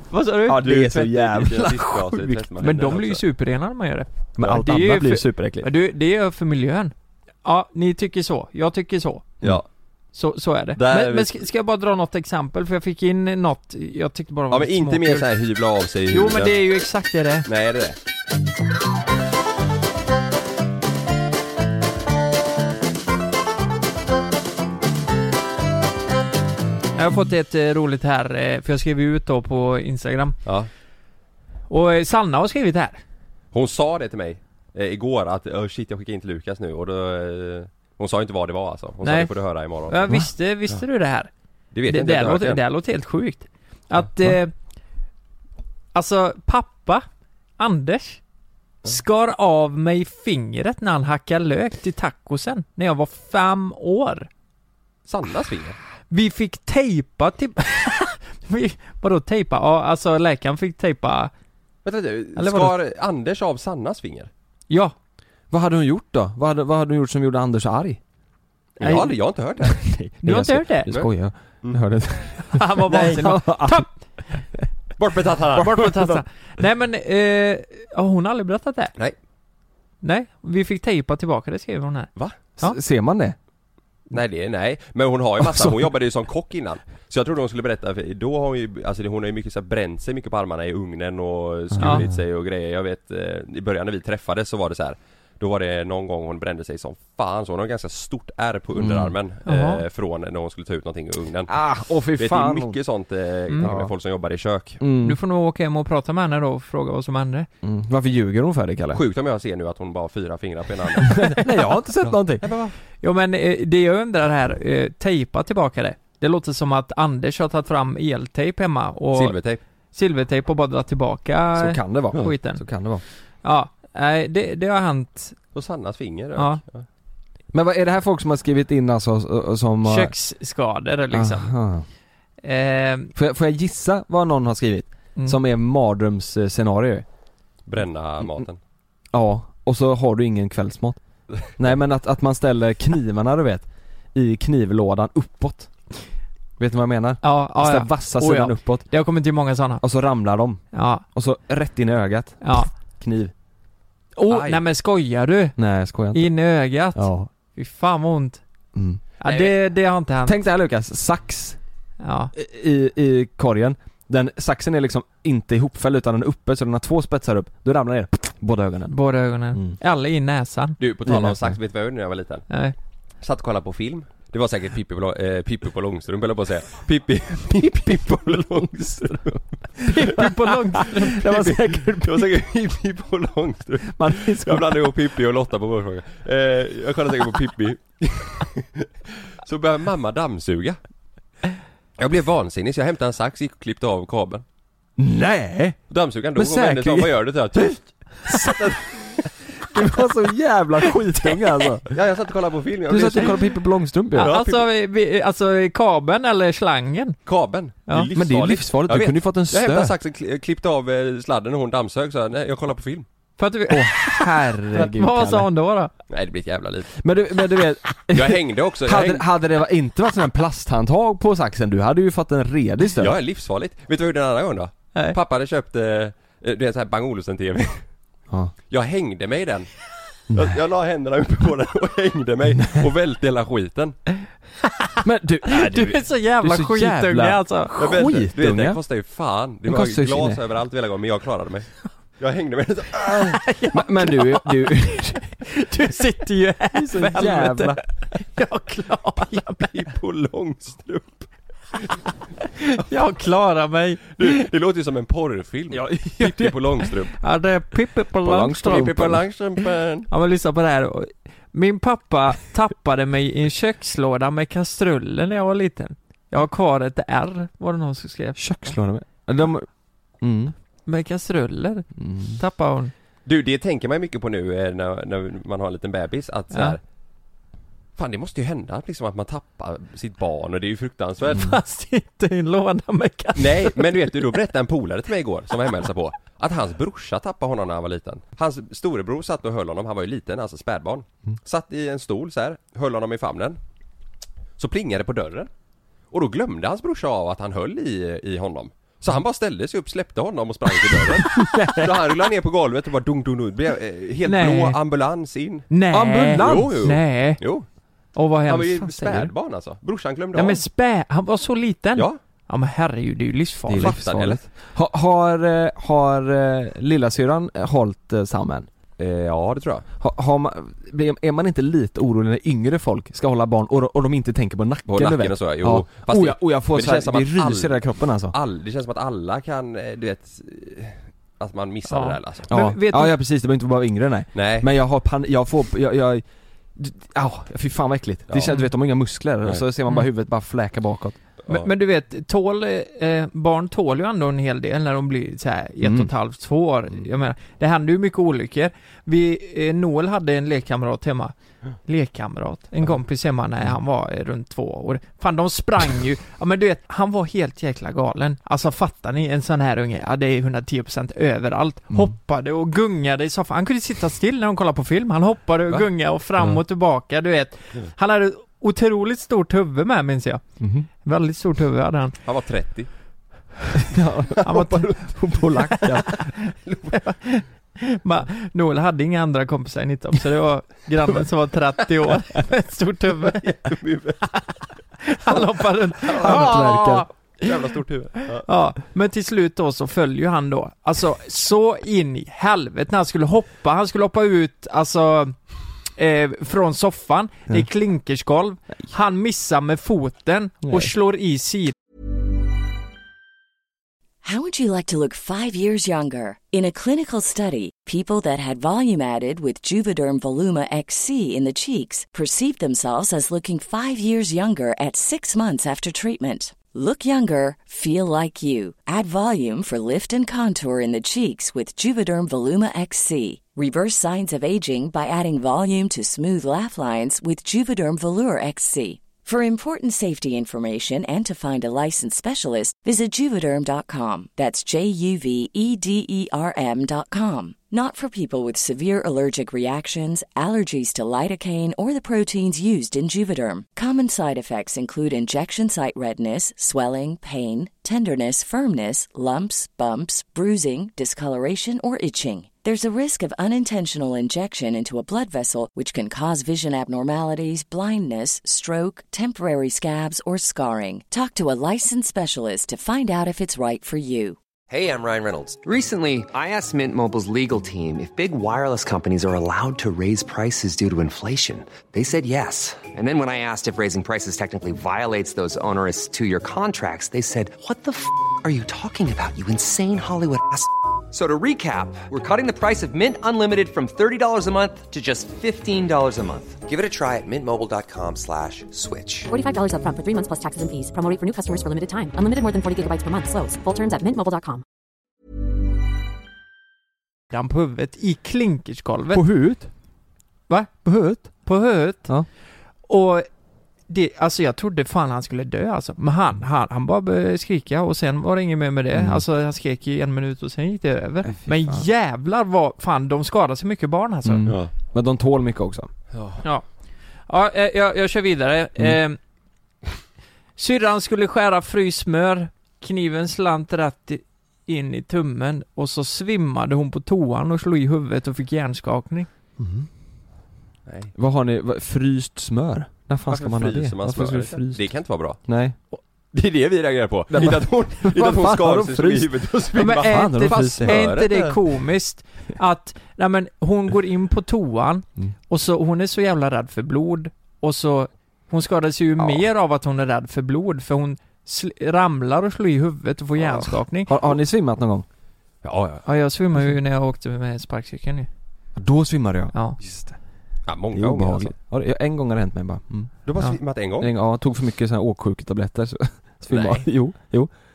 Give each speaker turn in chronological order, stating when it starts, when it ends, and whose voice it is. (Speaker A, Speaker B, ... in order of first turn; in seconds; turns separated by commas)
Speaker A: 0.1-0.7, Speaker B: 0.5-2.5, Speaker C: 0.6-3.2, Speaker A: 2.6-6.9, Speaker B: 4.4-5.7, Speaker A: 7.4-9.3, Speaker A: 10.1-15.3, Speaker C: 10.8-11.4, Speaker C: 14.5-16.6, Speaker A: 16.1-17.5, Speaker C: 17.4-18.0, Speaker A: 27.0-30.4, Speaker C: 30.4-30.7, Speaker A: 31.7-33.0, Speaker C: 33.5-40.1, Speaker A: 39.0-39.3, Speaker A: 39.9-41.3, Speaker C: 41.7-42.6, Speaker A: 41.9-44.5, Speaker A: 45.9-47.1, Speaker A: 47.6-48.2, Speaker A: 48.9-54.3, Speaker C: 55.1-55.8, Speaker A: 56.1-61.3, Speaker C: 61.9-64.3, Speaker A: 62.4-62.8, Speaker A: 64.7-65.0, Speaker B: 65.5-68.0, Speaker C: 68.8-69.8, Speaker A: 68.8-69.1, Speaker B: 69.6-73.9, Speaker A: 70.2-70.9, Speaker A: 72.5-73.9, Speaker C: 72.9-73.2, Speaker C: 75.0-75.9, Speaker B: 75.6-76.2, Speaker A: 75.6-78.9, Speaker A: 80.0-82.8, Speaker B: 82.6-83.4, Speaker C: 84.1-101.5, Speaker B: 85.4-85.8, Speaker B: 91.8-92.1, Speaker B: 98.8-99.1, Speaker A: 99.5-99.8, Speaker B: 101.5-102.8, Speaker C: 102.2-104.8, Speaker B: 103.6-103.9, Speaker B: 104.8-105.2, Speaker A: 105.0-107.5, Speaker B: 107.6-109.0, Speaker C: 108.9-111.5, Speaker B: 111.0-112.5, Speaker C: 112.1-112.8, Speaker A: 113.0-119.4, Speaker C: 119.1-119.6, Speaker A: 119.9-122.6, Speaker B: 121.5-123.0, Speaker A: 123.4-125.4, Speaker C: 125.5-126.9, Speaker A: 126.4-126.6, Speaker B: 127.5-130.1, Speaker A: 129.8-131.5, Speaker B: 131.1-131.8, Speaker A: 132.4-133.1, Speaker B: 133.2-137.1, Speaker C: 137.7-138.6, Speaker B: 139.1-141.0, Speaker B: 141.5-145.7, Speaker B: 146.6-148.9, Speaker A: 147.2-149.8, Speaker B: 149.8-153.3, Speaker A: 150.7-151.1, Speaker A: 152.4-152.7, Speaker A: 154.2-155.6, Speaker C: 154.3-154.6, Speaker B: 155.6-156.3, Speaker A: 156.1-158.4, Speaker B: 156.9-157.3, Speaker B: 158.7-159.0, Speaker A: 159.2-160.4, Speaker C: 159.2-159.5, Speaker B: 160.2-161.6, Speaker A: 162.0-162.3, Speaker B: 162.3-169.0, Speaker A: 168.9-170.8, Speaker B: 169.5-169.8, Speaker C: 170.8-172.5, Speaker B: 171.1-171.6, Speaker A: 172.5-172.8, Speaker C: 173.2-180.3, Speaker A: 179.9-181.3, Speaker B: 180.0-182.4, Speaker C: 181.1-188.9, Speaker B: 183.9-184.9, Speaker C: 189.4-190.8, Speaker C: 192.0-194.4, Speaker B: 195.0-195.8, Speaker C: 195.9-198.8, Speaker B: 196.3-197.7, Speaker B: 198.3-202.0, Speaker C: 201.9-203.5, Speaker B: 202.9-204.3, Speaker A: 204.1-207.2, Speaker C: 204.2-204.7, Speaker C: 207.3-213.1, Speaker B: 208.2-209.9, Speaker A: 213.4-215.9, Speaker B: 213.7-215.5, Speaker C: 216.1-217.0, Speaker B: 217.0-223.2, Speaker C: 218.1-219.2, Speaker C: 223.0-227.8, Speaker C: 228.7-229.7, Speaker C: 230.3-234.0, Speaker B: 232.6-232.9, Speaker A: 234.6-237.8, Speaker B: 235.0-238.8, Speaker C: 237.8-243.4, Speaker B: 239.7-240.4, Speaker A: 243.3-249.8, Speaker B: 243.7-245.3, Speaker B: 246.7-247.8, Speaker C: 249.6-252.0, Speaker A: 252.6-254.4, Speaker C: 254.2-257.2, Speaker B: 255.7-256.6, Speaker A: 257.1-258.9, Speaker B: 258.2-259.2, Speaker C: 258.6-260.1, Speaker A: 260.1-268.8, Speaker B: 268.4-269.7, Speaker B: 270.2-270.5, Speaker A: 270.9-271.9, Speaker B: 272.0-272.4, Speaker A: 272.4-272.9, Speaker C: 273.3-276.8, Speaker A: 276.5-276.8, Speaker C: 278.0-281.5, Speaker A: 281.3-284.3, Speaker C: 283.4-293.6, Speaker C: 294.6-295.5, Speaker C: 296.1-305.7, Speaker B: 301.2-302.1, Speaker A: 304.3-304.8, Speaker A: 305.7-307.4, Speaker B: 305.9-306.9, Speaker C: 306.4-307.7, Speaker A: 308.1-309.3, Speaker C: 308.5-310.6, Speaker A: 310.4-314.0, Speaker B: 313.7-318.7, Speaker C: 313.8-314.4, Speaker C: 319.0-319.9, Speaker B: 320.0-328.4, Speaker C: 324.9-332.5, Speaker A: 331.9-333.1, Speaker B: 332.5-336.2, Speaker C: 334.3-334.7, Speaker B: 336.8-341.2, Speaker C: 338.3-338.6, Speaker C: 341.4-341.7, Speaker A: 341.5-351.3, Speaker B: 345.8-346.1, Speaker A: 351.9-370.4, Speaker B: 370.6-370.9, Speaker A: 371.0-372.1, Speaker C: 372.2-372.9, Speaker B: 373.8-376.2, Speaker A: 374.4-375.0, Speaker C: 374.5-374.9, Speaker A: 375.7-376.3, Speaker C: 376.7-376.9, Speaker A: 376.9-383.5, Speaker C: 383.3-384.3, Speaker A: 384.3-387.0, Speaker C: 386.0-388.5, Speaker B: 386.2-387.1, Speaker A: 388.3-395.4, Speaker A: 396.0-401.7, Speaker B: 400.6-400.9, Speaker D: 404.2-464.4, Speaker E: 464.7-489.3, Speaker F: 489.3-494.6, Speaker A: 497.3-499.2, Speaker B: 499.1-499.7, Speaker A: 500.5-502.1, Speaker B: 500.9-501.2, Speaker A: 502.9-503.3, Speaker A: 503.9-514.4, Speaker B: 508.9-509.2, Speaker B: 511.4-511.9, Speaker B: 514.2-515.9, Speaker C: 514.5-514.7, Speaker C: 516.1-516.4, Speaker A: 517.3-519.2, Speaker A: 520.6-529.3, Speaker B: 529.6-529.9, Speaker C: 530.9-531.1, Speaker B: 531.1-534.9, Speaker C: 533.3-535.4, Speaker B: 535.5-535.8, Speaker C: 536.3-541.6, Speaker B: 537.3-539.3, Speaker A: 539.8-554.1, Speaker B: 539.9-541.1, Speaker B: 554.1-555.1, Speaker C: 555.6-556.0, Speaker A: 556.0-558.3, Speaker B: 558.8-560.2, Speaker C: 560.7-561.5, Speaker B: 560.9-563.3, Speaker C: 563.3-564.1, Speaker B: 564.0-567.5, Speaker C: 566.5-566.9